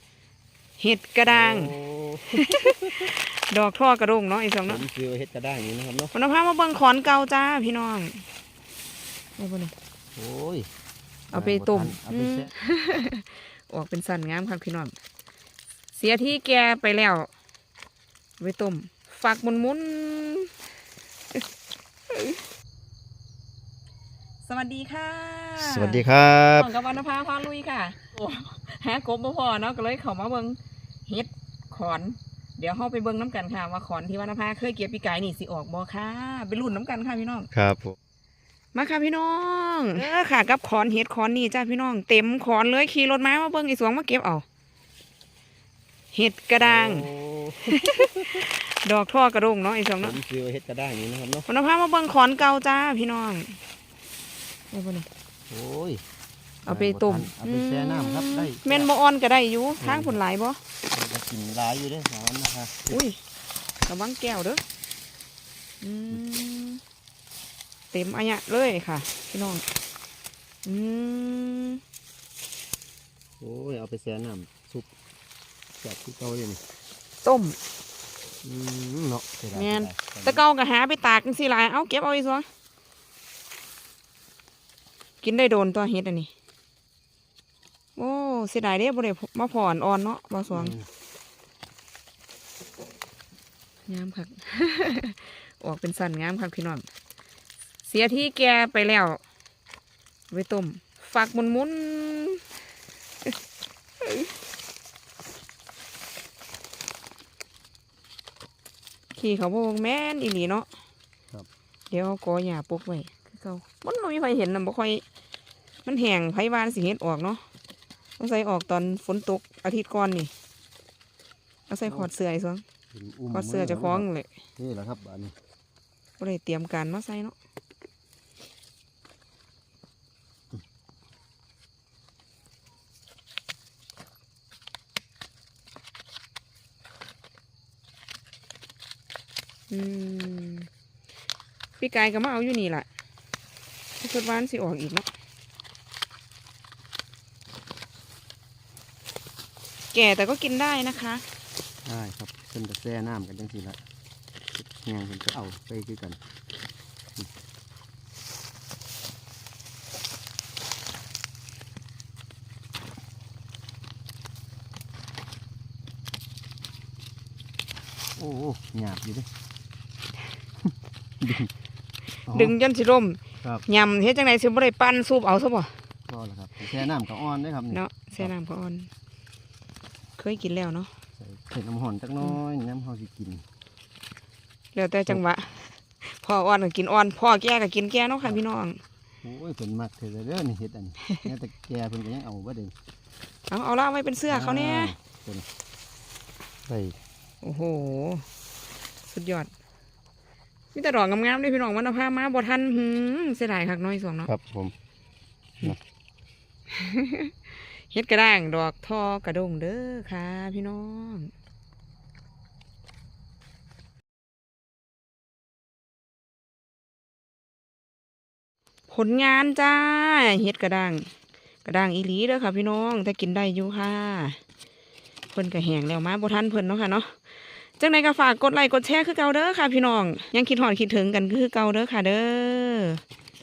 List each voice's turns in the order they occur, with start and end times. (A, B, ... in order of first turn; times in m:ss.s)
0:00.8-0:01.7 A
0:01.2-0:03.1 B
0:02.3-0:04.8 A
0:04.7-0:06.1 B
0:06.1-0:08.2 A
0:09.4-0:09.7 A
0:10.2-0:10.7 B
0:11.3-0:12.5 B
0:11.3-0:14.9 A
0:15.9-0:17.3 A
0:18.4-0:20.5 A
0:22.1-0:22.4 A
0:24.4-0:26.0 A
0:25.6-0:26.7 B
0:26.6-0:37.5 A
0:37.5-0:37.9 B
0:38.7-0:44.4 A
0:46.1-0:47.0 A
0:46.6-0:48.4 B
0:47.7-0:50.2 A
0:50.0-0:51.5 B
0:51.5-0:53.6 A
0:54.7-0:55.1 A
0:55.5-0:56.0 B
0:56.6-1:00.6 A
0:56.7-0:58.9 B
0:59.8-1:00.2 B
1:00.9-1:03.0 B
1:02.9-1:03.2 A
1:03.8-1:04.6 A
1:05.8-1:06.8 A
1:07.9-1:09.6 A
1:10.6-1:11.8 A
1:13.4-1:14.9 B
1:15.8-1:16.6 B
1:17.2-1:17.6 A
1:18.4-1:20.4 B
1:19.5-1:22.4 A
1:25.2-1:26.3 A
1:28.0-1:30.7 A
1:30.5-1:30.9 B
1:33.9-1:36.9 A
1:37.8-1:39.2 A
1:40.3-1:42.4 A
1:44.0-1:44.3 A
1:49.1-1:50.7 A
1:51.9-1:55.0 A
1:55.8-1:57.4 A
1:58.2-2:00.3 A
2:01.7-2:02.6 A
2:01.8-2:02.1 B
2:02.9-2:04.0 B
2:03.3-2:04.3 A
2:04.6-2:05.3 B
2:06.2-2:07.3 A
2:19.7-2:20.7 A
2:21.8-2:22.9 A
2:24.0-2:25.1 A
2:29.9-2:31.2 A
2:31.8-2:33.8 B
2:34.5-2:36.2 B
2:48.2-2:49.3 B
2:51.2-2:51.5 B
2:52.3-2:52.5 B
2:52.3-2:55.7 A
2:56.1-2:58.3 B
2:57.7-2:58.9 A
3:00.2-3:00.9 A
3:01.2-3:03.4 B
3:04.7-3:08.8 A
3:09.2-3:12.7 B
3:13.5-3:14.9 A
3:14.3-3:15.4 B
3:16.7-3:17.0 B
3:17.4-3:18.2 A
3:19.0-3:19.5 A
3:20.7-3:24.3 A
3:24.2-3:24.7 B
3:26.7-3:27.3 A
3:27.9-3:31.3 A
3:38.9-3:41.1 A
3:41.6-3:44.4 A
3:45.3-3:47.1 A
3:47.8-3:53.0 A